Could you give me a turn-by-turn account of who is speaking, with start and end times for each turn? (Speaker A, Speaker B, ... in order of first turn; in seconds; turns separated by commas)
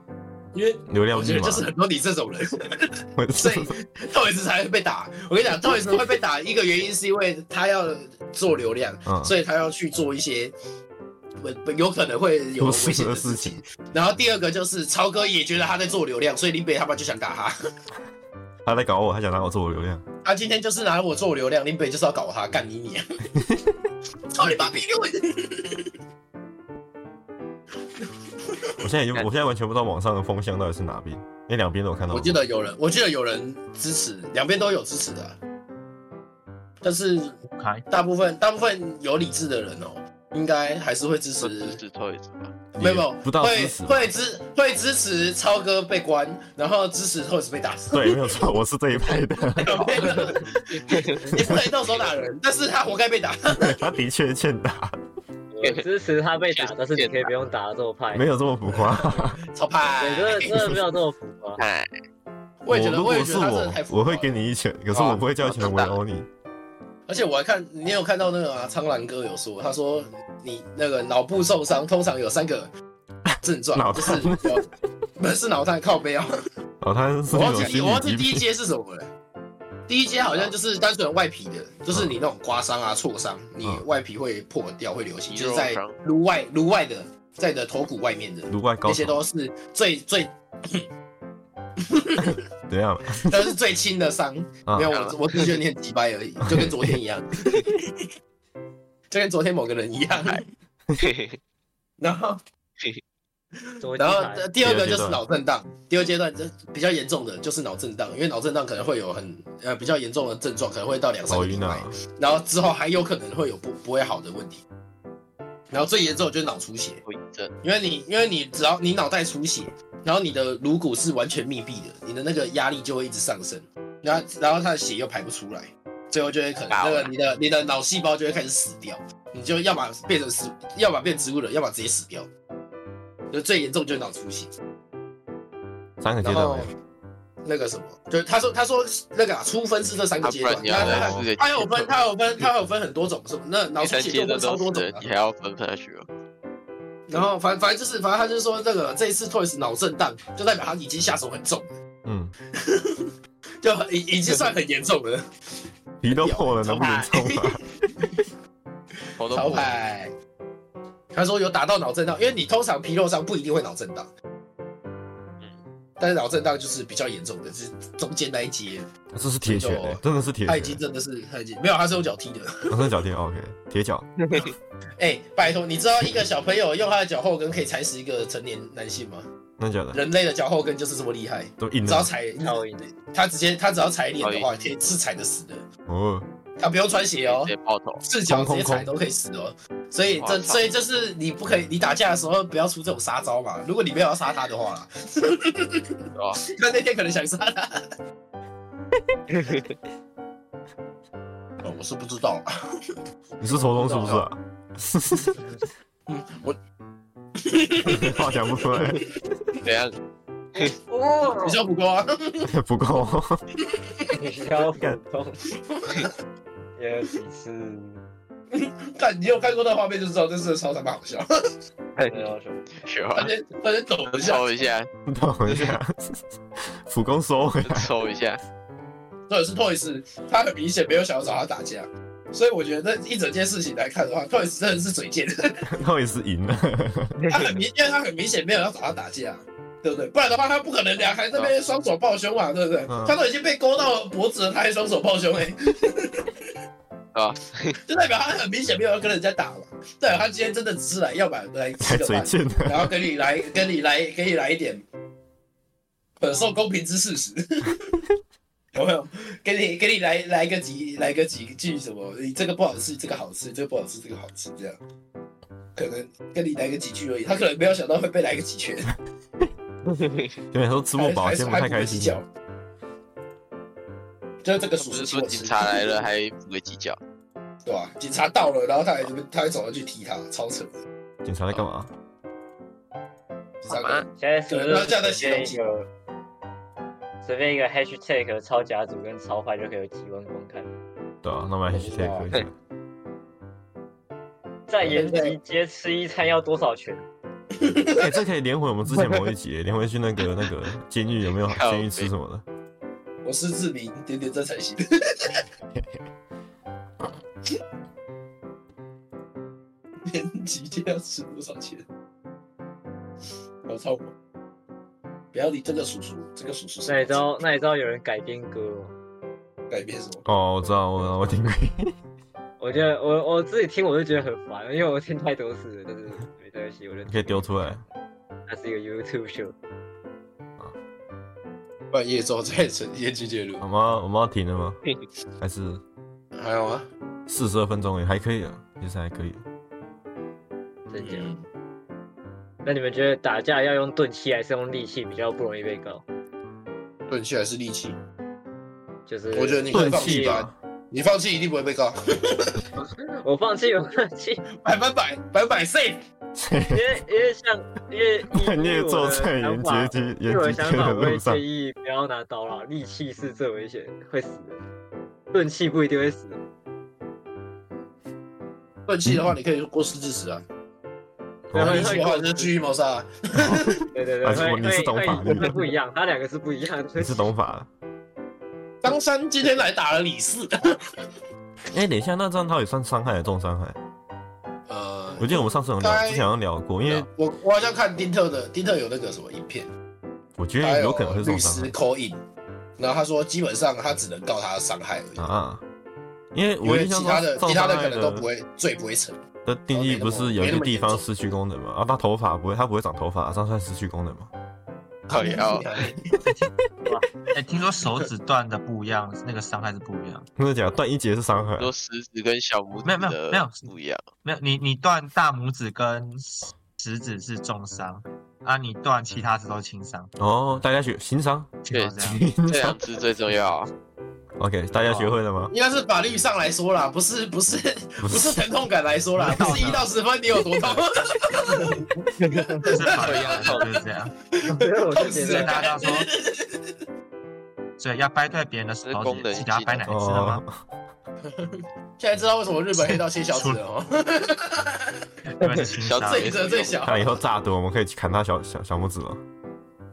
Speaker A: 0.5-10.5, Speaker B: 0.9-1.7, Speaker B: 3.1-3.8, Speaker B: 9.1-9.3, Speaker A: 11.4-17.5, Speaker B: 12.6-13.6, Speaker B: 18.6-20.0, Speaker A: 20.2-23.0, Speaker A: 24.3-25.9, Speaker B: 28.8-32.4, Speaker A: 32.1-35.4, Speaker A: 36.8-37.4, Speaker C: 37.5-37.9, Speaker A: 37.9-41.8, Speaker D: 41.4-42.5, Speaker B: 42.8-44.1, Speaker A: 42.8-48.4, Speaker B: 47.9-49.9, Speaker A: 49.6-53.8, Speaker D: 50.7-51.3, Speaker B: 53.5-54.9, Speaker E: 55.5-58.2, Speaker D: 56.4-57.3, Speaker B: 58.1-59.4, Speaker A: 58.7-60.8, Speaker E: 60.0-61.6, Speaker D: 61.6-61.9, Speaker A: 62.6-64.3, Speaker B: 62.7-66.3, Speaker A: 64.9-65.2, Speaker D: 65.4-66.0, Speaker A: 67.1-72.7, Speaker A: 73.4-76.3, Speaker B: 73.7-74.6, Speaker B: 76.8-78.4, Speaker A: 77.3-79.1, Speaker A: 79.9-90.8, Speaker D: 80.3-80.5, Speaker D: 85.3-86.0, Speaker B: 88.5-89.2, Speaker A: 91.9-92.4, Speaker B: 92.7-93.5, Speaker A: 93.2-98.0, Speaker B: 94.7-94.9, Speaker D: 94.9-95.5, Speaker B: 96.5-96.7, Speaker A: 99.1-100.5, Speaker D: 101.0-101.4, Speaker A: 102.0-102.4, Speaker E: 103.8-104.5, Speaker A: 103.9-114.6, Speaker B: 104.6-105.2, Speaker B: 111.3-112.0, Speaker A: 115.7-117.0, Speaker D: 117.0-117.5, Speaker A: 117.6-132.3, Speaker D: 126.7-127.1, Speaker A: 133.3-134.5, Speaker B: 136.0-136.7, Speaker A: 136.2-136.7, Speaker A: 137.4-145.0, Speaker D: 140.2-141.9, Speaker B: 140.7-141.3, Speaker D: 143.8-146.1, Speaker A: 147.1-151.7, Speaker B: 152.0-152.3, Speaker A: 152.6-153.1, Speaker A: 153.6-155.2, Speaker B: 156.0-157.6, Speaker A: 156.1-158.2, Speaker D: 159.2-159.8, Speaker A: 159.3-160.1, Speaker A: 161.1-164.1, Speaker A: 166.0-168.9, Speaker B: 169.1-170.8, Speaker A: 169.4-172.9, Speaker B: 172.7-174.1, Speaker D: 174.2-174.5, Speaker A: 175.0-179.3, Speaker B: 179.6-180.0, Speaker A: 179.9-185.7, Speaker B: 181.6-182.1, Speaker E: 182.4-182.8, Speaker D: 184.2-184.5, Speaker B: 185.9-186.2, Speaker A: 186.6-197.9, Speaker D: 187.2-188.0, Speaker B: 188.3-188.9, Speaker D: 190.2-190.6, Speaker D: 196.2-196.4, Speaker D: 199.3-199.8, Speaker A: 201.6-202.5, Speaker B: 203.4-205.4, Speaker A: 203.8-204.2, Speaker A: 206.1-206.6, Speaker A: 207.4-208.2, Speaker B: 207.8-209.1, Speaker D: 209.6-209.9, Speaker E: 210.6-211.6, Speaker A: 211.4-212.5, Speaker B: 212.4-213.4, Speaker A: 213.7-214.2, Speaker E: 214.1-215.5, Speaker B: 214.7-215.0, Speaker A: 215.7-216.1, Speaker E: 216.8-218.0, Speaker A: 218.5-221.2, Speaker D: 221.9-223.3, Speaker E: 222.1-222.7, Speaker A: 223.1-224.4, Speaker D: 224.1-224.9, Speaker B: 225.1-227.9, Speaker D: 225.5-225.8, Speaker D: 227.6-228.4, Speaker A: 229.3-235.7, Speaker B: 235.7-237.1, Speaker D: 237.2-237.5, Speaker A: 237.3-246.3, Speaker B: 242.9-243.2, Speaker D: 247.1-247.8, Speaker A: 247.7-254.8, Speaker B: 251.8-252.9, Speaker A: 256.2-258.0, Speaker A: 258.7-264.8, Speaker A: 265.7-268.9, Speaker D: 269.9-270.3, Speaker B: 270.5-272.2, Speaker A: 271.0-272.3, Speaker A: 274.4-276.0, Speaker D: 274.8-277.0, Speaker A: 277.6-280.8, Speaker B: 281.2-281.9, Speaker A: 283.6-285.6, Speaker D: 283.7-284.1, Speaker E: 284.1-285.9, Speaker E: 287.2-290.7, Speaker B: 291.2-292.5, Speaker A: 291.7-292.4, Speaker E: 294.7-297.0, Speaker A: 294.8-295.4, Speaker A: 297.6-298.0, Speaker B: 297.9-302.4, Speaker D: 301.5-302.1, Speaker A: 303.2-305.4, Speaker A: 310.1-311.9, Speaker A: 313.6-314.1, Speaker A: 315.3-317.3, Speaker E: 316.9-318.9, Speaker A: 319.7-320.2, Speaker B: 320.2-321.9, Speaker E: 322.6-327.8, Speaker B: 327.1-327.8, Speaker E: 328.5-329.5, Speaker A: 331.9-333.6, Speaker B: 333.6-334.8, Speaker B: 335.4-335.8, Speaker A: 336.3-336.9, Speaker B: 337.3-339.4, Speaker E: 340.9-341.3, Speaker A: 340.9-341.4, Speaker E: 342.6-346.0, Speaker A: 347.1-348.0, Speaker E: 349.1-350.4, Speaker A: 349.3-352.6, Speaker B: 349.7-350.5, Speaker E: 353.0-354.4, Speaker A: 354.6-356.0, Speaker B: 356.3-357.0, Speaker E: 356.7-364.6, Speaker B: 358.3-361.4, Speaker E: 365.3-366.4, Speaker A: 368.9-370.4, Speaker B: 371.5-372.0, Speaker E: 371.5-372.5, Speaker A: 371.5-373.9, Speaker B: 373.4-375.7, Speaker E: 373.9-377.2, Speaker B: 377.0-377.7, Speaker A: 378.8-380.8, Speaker B: 381.7-383.8, Speaker A: 384.7-386.2, Speaker B: 385.2-387.1, Speaker A: 387.1-389.7, Speaker B: 390.4-391.7, Speaker A: 390.6-392.2, Speaker A: 392.8-395.3, Speaker B: 395.2-395.6, Speaker B: 396.3-398.2, Speaker A: 396.6-399.2, Speaker B: 399.4-404.3, Speaker A: 399.7-401.0, Speaker A: 405.1-406.1, Speaker D: 405.1-405.7, Speaker C: 407.3-410.3, Speaker B: 410.4-411.7, Speaker D: 411.6-414.1, Speaker C: 412.8-413.7, Speaker C: 414.2-420.1, Speaker B: 420.2-422.8, Speaker C: 421.6-422.3, Speaker D: 421.7-423.7, Speaker B: 424.4-425.5, Speaker C: 424.7-425.1, Speaker A: 425.5-433.8, Speaker B: 428.0-428.4, Speaker C: 429.2-429.9, Speaker D: 432.2-433.6, Speaker C: 432.6-434.1, Speaker A: 434.4-436.8, Speaker E: 434.6-435.6, Speaker C: 435.2-436.1, Speaker C: 437.8-440.4, Speaker D: 438.8-439.8, Speaker B: 439.9-440.6, Speaker A: 441.2-445.0, Speaker C: 442.9-443.6, Speaker C: 445.3-446.4, Speaker D: 445.8-446.8, Speaker A: 446.1-447.2, Speaker B: 446.8-449.2